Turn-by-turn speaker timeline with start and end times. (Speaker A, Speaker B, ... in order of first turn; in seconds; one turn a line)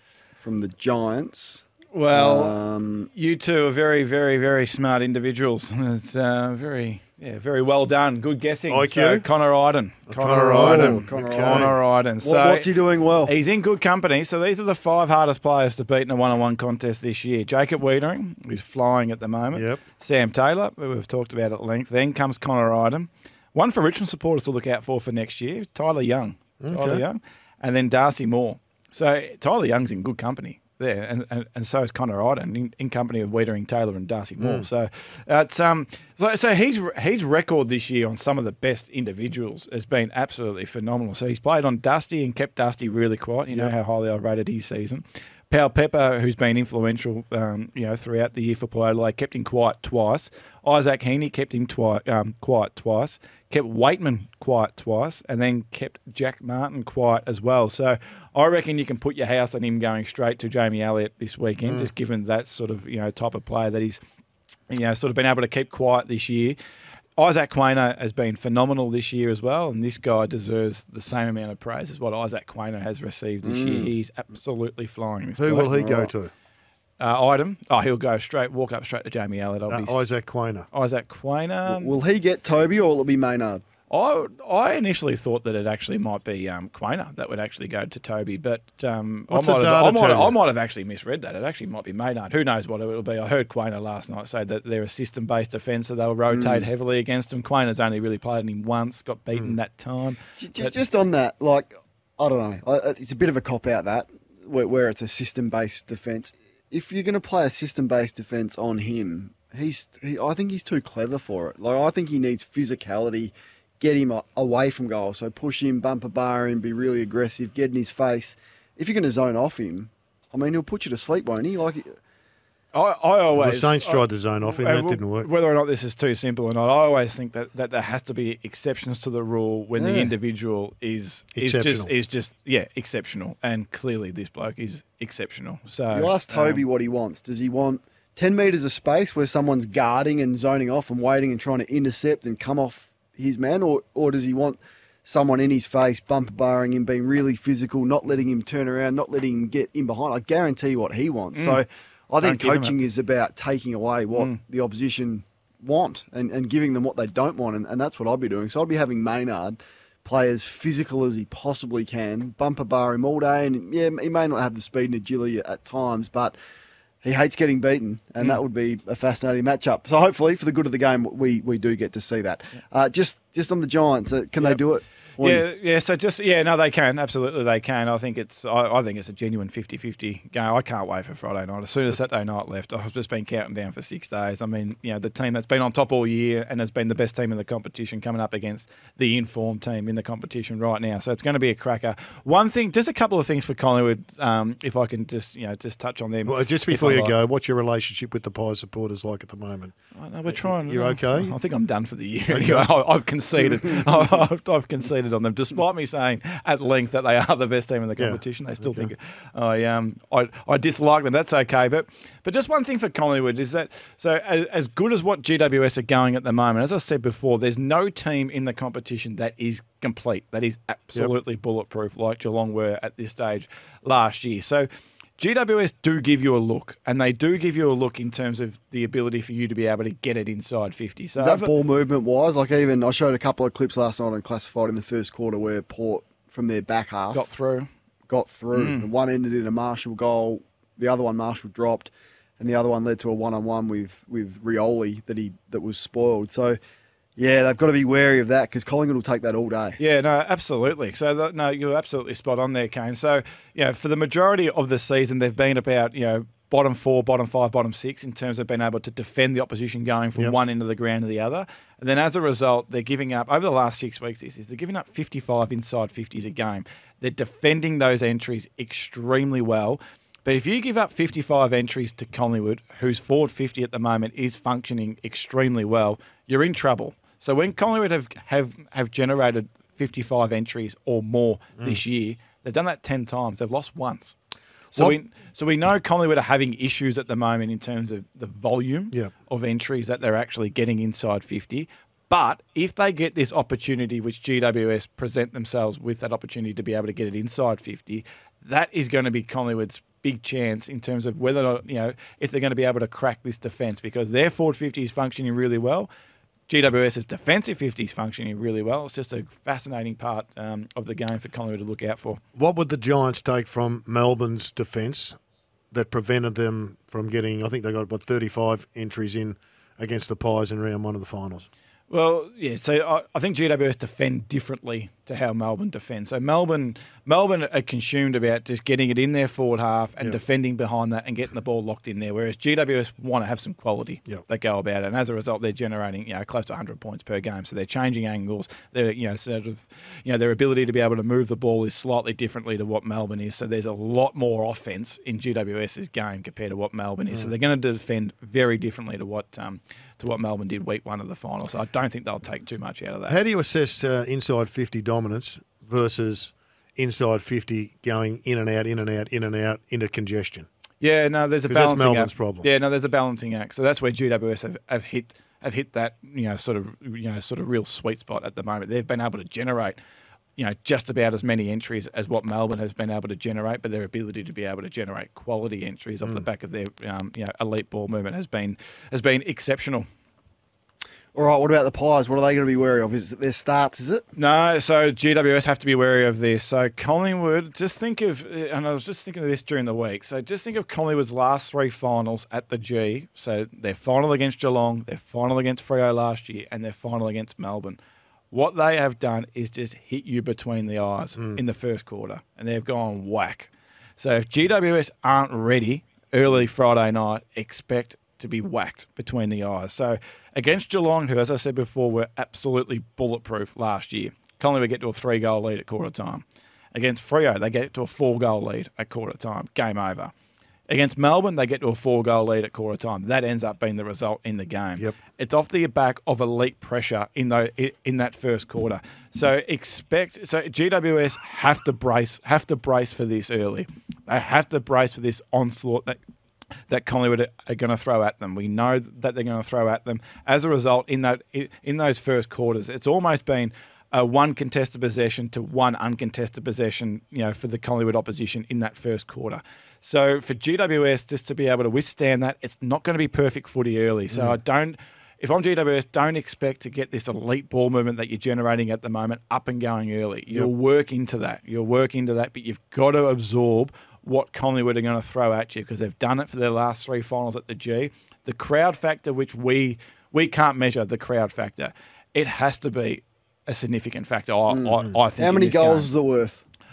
Speaker A: 0.4-3.1
Speaker B: 1.9-2.5
Speaker B: 3.1-12.7
Speaker C: 8.7-9.2
Speaker C: 10.1-11.7
Speaker A: 10.3-13.3
Speaker B: 13.2-64.0
Speaker C: 19.5-19.8
Speaker C: 26.6-27.0
Speaker C: 34.4-34.7
Speaker C: 61.6-61.9
Speaker B: 64.7-66.6
Speaker B: 67.2-76.1
Speaker A: 73.4-73.9
Speaker C: 75.4-76.3
Speaker B: 77.0-80.0
Speaker C: 79.7-80.7
Speaker B: 80.7-81.9
Speaker A: 81.6-83.6
Speaker B: 83.9-100.7
Speaker C: 89.3-90.3
Speaker A: 96.3-96.7
Speaker A: 100.4-122.0
Speaker B: 122.7-136.6
Speaker C: 123.3-125.3
Speaker A: 129.7-130.1
Speaker C: 131.3-131.9
Speaker A: 135.9-166.3
Speaker B: 151.3-151.6
Speaker B: 152.2-152.7
Speaker A: 167.0-175.4
Speaker B: 175.2-197.1
Speaker C: 196.2-201.3
Speaker B: 199.9-231.5
Speaker C: 202.3-202.7
Speaker C: 208.0-208.9
Speaker A: 231.2-237.2
Speaker B: 237.1-237.7
Speaker A: 238.1-246.6
Speaker B: 238.5-238.9
Speaker A: 247.2-249.8
Speaker B: 249.8-284.1
Speaker B: 284.7-305.9
Speaker B: 306.5-312.2
Speaker C: 312.4-315.2
Speaker C: 315.7-321.5
Speaker B: 321.9-353.1
Speaker C: 353.1-360.5
Speaker B: 360.8-369.8
Speaker C: 361.5-362.5
Speaker B: 370.4-379.9
Speaker A: 381.1-384.0
Speaker B: 384.1-397.8
Speaker B: 398.3-420.1
Speaker B: 420.7-436.0
Speaker B: 436.7-475.9
Speaker C: 454.1-454.4
Speaker A: 474.5-476.4